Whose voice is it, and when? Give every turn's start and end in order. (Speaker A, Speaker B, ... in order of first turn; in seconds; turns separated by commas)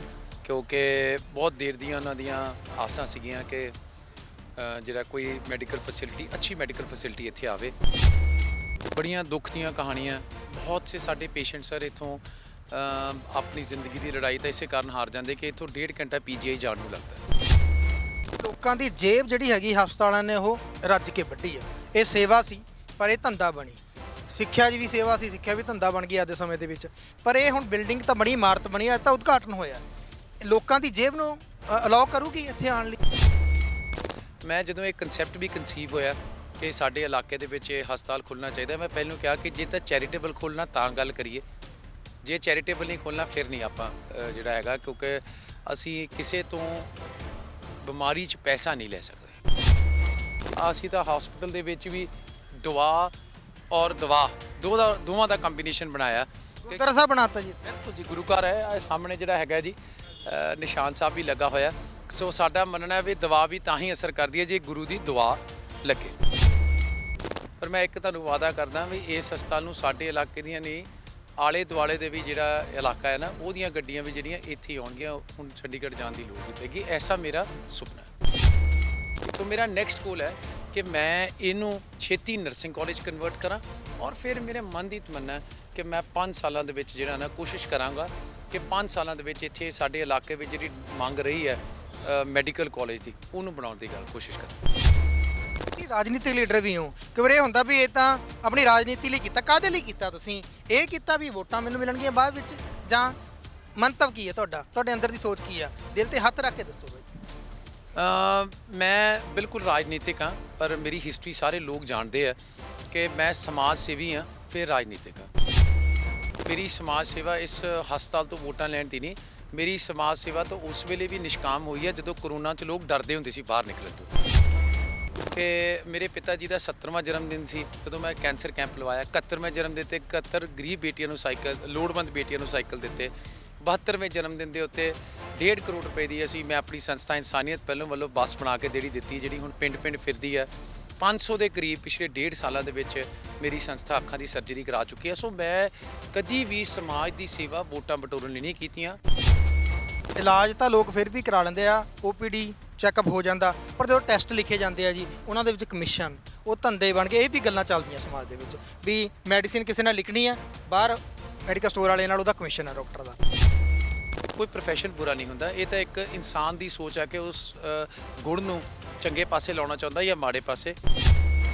Speaker A: 0.4-3.7, Speaker A: 4.5-7.8, Speaker A: 8.9-17.2, Speaker B: 18.4-29.8, Speaker B: 30.4-33.0, Speaker A: 34.4-41.5, Speaker A: 42.2-47.3, Speaker A: 47.8-49.4, Speaker A: 50.5-53.1, Speaker A: 53.7-56.8, Speaker B: 56.7-57.6, Speaker A: 57.6-66.2, Speaker A: 67.6-70.9, Speaker A: 71.4-78.1, Speaker A: 79.2-94.6, Speaker B: 95.7-103.2, Speaker B: 103.8-107.1, Speaker A: 108.0-112.4, Speaker A: 112.9-115.3, Speaker A: 116.5-124.1, Speaker A: 125.3-149.0, Speaker B: 150.2-163.2, Speaker A: 164.3-170.8